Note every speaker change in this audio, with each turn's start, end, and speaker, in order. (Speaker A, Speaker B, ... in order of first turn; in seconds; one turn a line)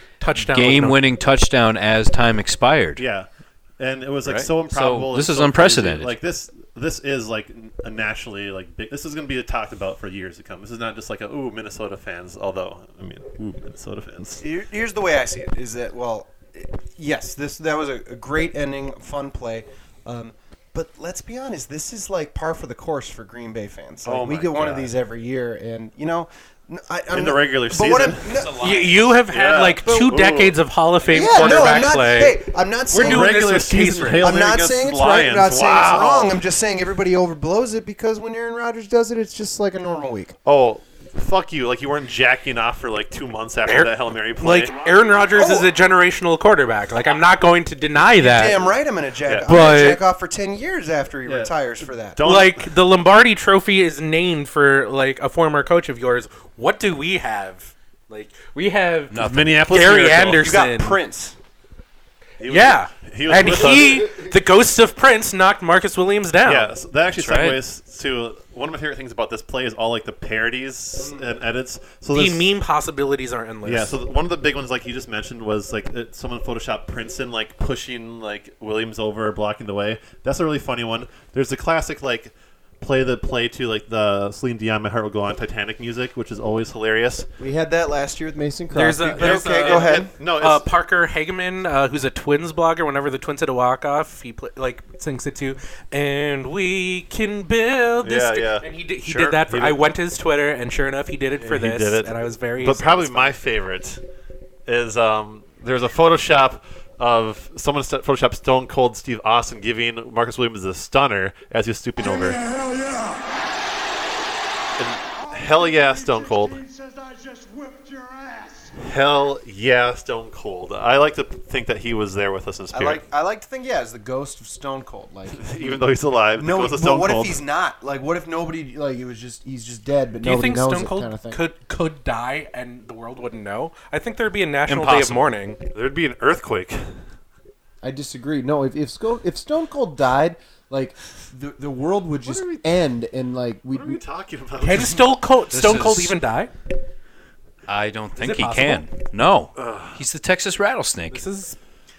Speaker A: 0.2-1.0
Speaker B: 0.3-3.0
Speaker C: 3.0-3.3
Speaker C: 3.8-14.4
Speaker B: 4.2-6.1
Speaker D: 14.4-28.7
Speaker C: 24.0-24.9
Speaker C: 27.1-28.4
Speaker B: 28.2-29.2
Speaker A: 28.6-34.3
Speaker C: 29.3-30.6
Speaker D: 31.1-33.4
Speaker C: 31.4-31.8
Speaker C: 33.0-36.4
Speaker D: 34.2-40.4
Speaker C: 40.4-44.7
Speaker A: 43.6-48.7
Speaker D: 45.3-45.7
Speaker D: 48.2-52.2
Speaker A: 49.5-50.0
Speaker C: 51.2-52.7
Speaker A: 52.2-61.0
Speaker B: 59.1-59.7
Speaker C: 59.2-60.6
Speaker D: 60.3-61.4
Speaker C: 62.4-64.2
Speaker A: 62.4-66.7
Speaker C: 66.4-72.5
Speaker B: 67.1-67.6
Speaker D: 71.0-71.2
Speaker A: 72.1-73.9
Speaker C: 73.6-87.3
Speaker D: 87.4-90.1
Speaker A: 88.7-103.3
Speaker C: 89.1-90.7
Speaker C: 98.0-99.8
Speaker C: 101.4-104.0
Speaker C: 104.7-112.4
Speaker E: 112.5-113.2
Speaker C: 114.8-116.6
Speaker E: 116.6-118.7
Speaker C: 118.8-123.0
Speaker D: 122.7-125.8
Speaker C: 125.3-127.4
Speaker D: 126.3-131.4
Speaker A: 130.2-135.6
Speaker C: 134.7-135.2
Speaker B: 134.7-135.1
Speaker C: 135.7-136.9
Speaker D: 137.8-144.0
Speaker C: 142.2-142.6
Speaker C: 143.7-145.1
Speaker A: 144.6-146.5
Speaker B: 145.5-146.2
Speaker B: 147.7-151.2
Speaker A: 148.2-148.9
Speaker C: 149.6-150.0
Speaker A: 151.1-151.6